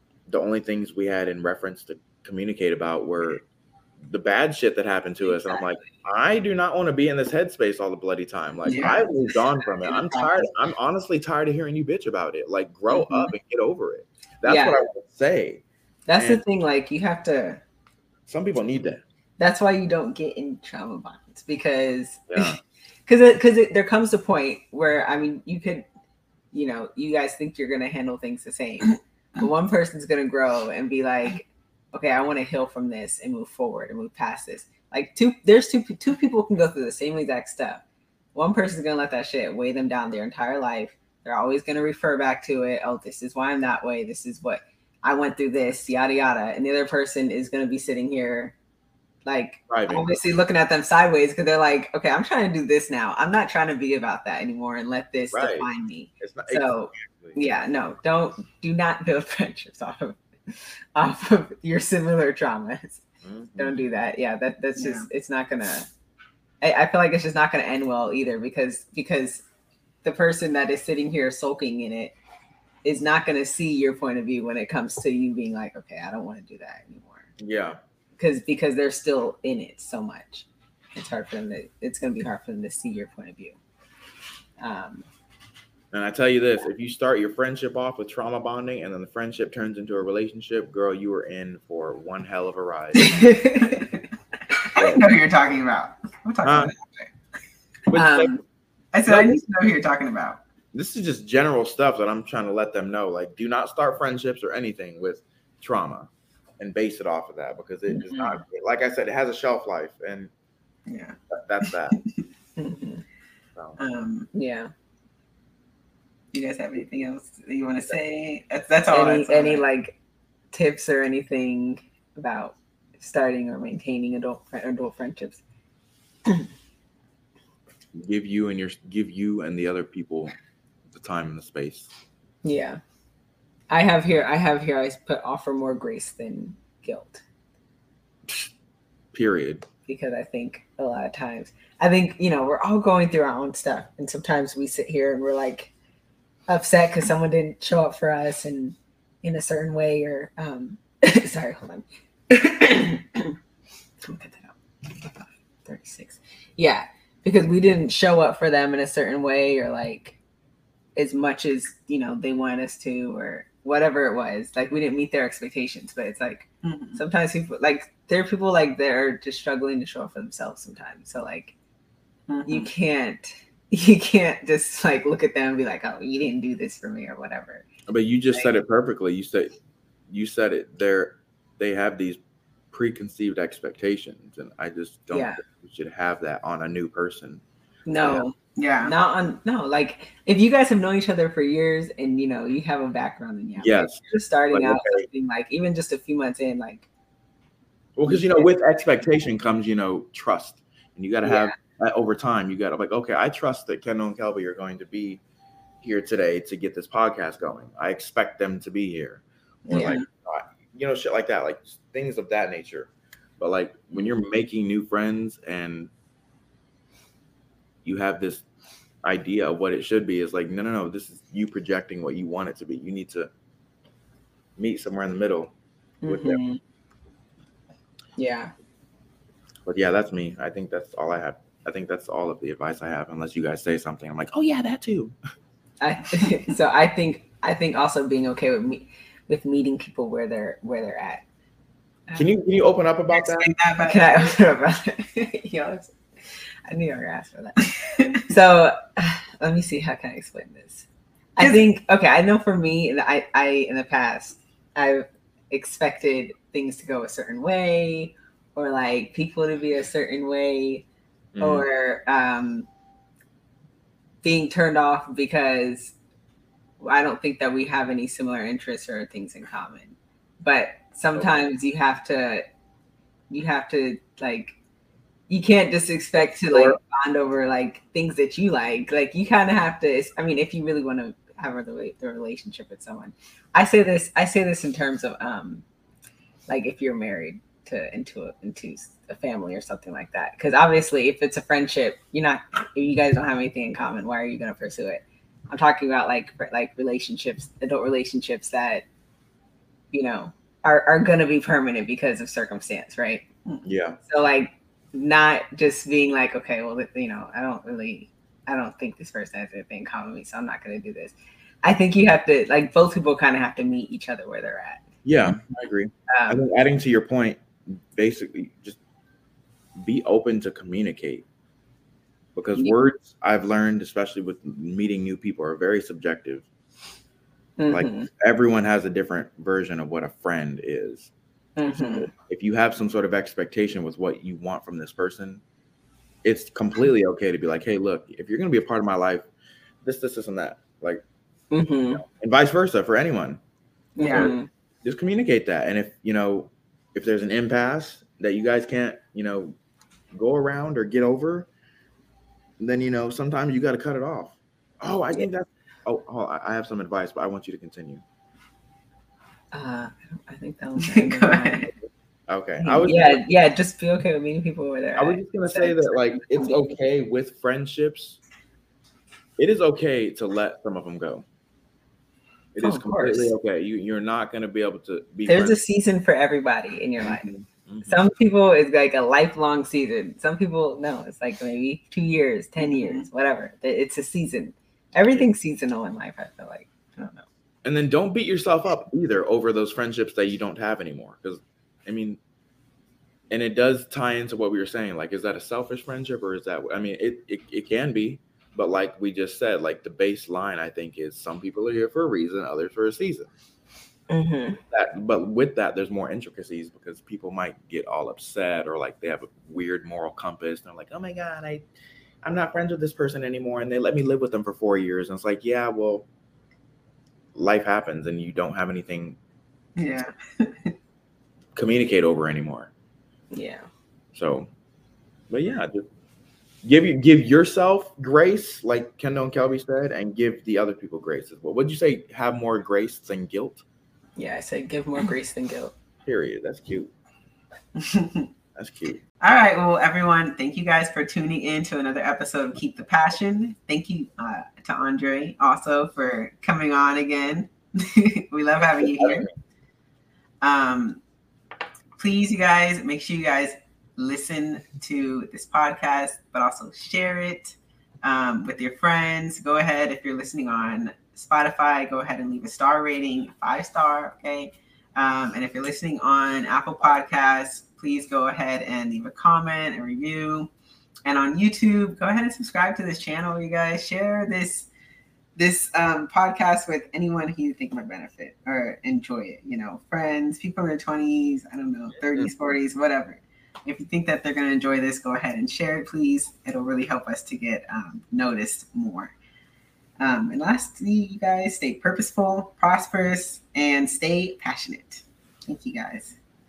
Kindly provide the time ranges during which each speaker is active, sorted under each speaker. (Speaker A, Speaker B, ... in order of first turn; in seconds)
Speaker A: 0.3-3.4, 4.0-15.6, 16.1-16.4, 18.3-19.0, 22.3-22.6, 49.7-50.1, 55.3-55.7, 56.2-57.4, 63.2-63.8, 77.4-77.8, 85.9-93.2, 94.8-95.0, 96.4-96.7, 97.9-98.4, 99.1-99.4, 100.7-110.3, 111.3-112.0, 127.9-130.3, 130.9-131.9, 139.1-139.7, 177.9-179.5, 180.1-182.2, 182.7-187.4, 193.6-195.1, 197.9-205.2, 205.8-215.9, 217.8-218.4, 219.0-223.3, 224.6-225.5, 226.1-226.4, 229.7-235.1, 242.2-243.5, 261.3-261.7, 276.5-276.8, 303.6-304.0, 315.0-318.8, 319.8-321.2, 322.3-326.5, 327.7-331.1, 331.7-335.4, 336.2-339.2, 339.8-341.0, 341.9-343.4, 344.0-349.6, 350.1-351.5, 352.6-358.0, 362.3-363.2, 364.9-368.2, 369.4-371.2, 372.5-375.6, 377.0-378.0, 387.6-392.2, 393.3-403.3, 404.7-411.6, 412.2-416.1, 417.3-419.2, 421.6-422.7, 424.1-424.5, 425.3-425.9, 426.6-433.6, 436.0-436.9, 438.5-439.0, 448.6-449.3
Speaker B: 5.2-5.6, 8.7-10.4, 12.9-13.3, 14.4-14.8, 16.1-17.6, 19.4-25.9, 26.5-37.8, 38.3-48.5, 49.2-63.0, 63.6-65.9, 66.6-69.4, 70.0-72.2, 72.8-77.3, 78.2-83.6, 84.6-85.0, 93.0-93.8, 97.9-98.4, 107.9-108.4, 112.6-113.0, 114.3-114.7, 118.9-120.0, 120.5-125.4, 132.4-132.8, 133.7-137.2, 139.8-145.7, 146.5-153.3, 154.0-160.2, 160.9-171.5, 172.4-177.7, 185.1-185.4, 187.9-196.9, 198.1-198.5, 201.2-201.6, 209.7-210.0, 226.0-226.6, 228.2-228.5, 235.8-241.2, 243.8-245.9, 246.7-247.7, 248.3-260.9, 261.4-262.7, 264.2-265.9, 266.8-272.4, 273.3-274.5, 275.3-285.6, 286.5-298.8, 299.9-303.2, 304.1-314.8, 316.1-316.4, 327.6-328.1, 331.6-332.1, 341.5-342.0, 343.9-344.5, 359.5-361.7, 362.6-366.7, 372.6-373.3, 375.3-377.3, 377.8-387.2, 404.1-404.6, 423.3-423.6, 434.2-435.7
Speaker C: 8.7-9.0, 64.8-65.1, 93.6-94.0, 94.5-97.1, 98.9-100.4, 110.9-112.0, 113.8-114.3, 116.3-119.6, 166.6-167.0, 172.3-172.7, 188.6-188.9, 209.7-209.9, 243.1-244.3, 247.7-248.2, 251.4-251.6, 344.0-344.3, 360.8-361.6, 382.6-383.0, 419.8-420.7, 437.8-438.3, 439.2-449.3, 450.4-451.0, 452.0-470.5, 471.0-474.7, 475.4-489.1, 490.0-496.1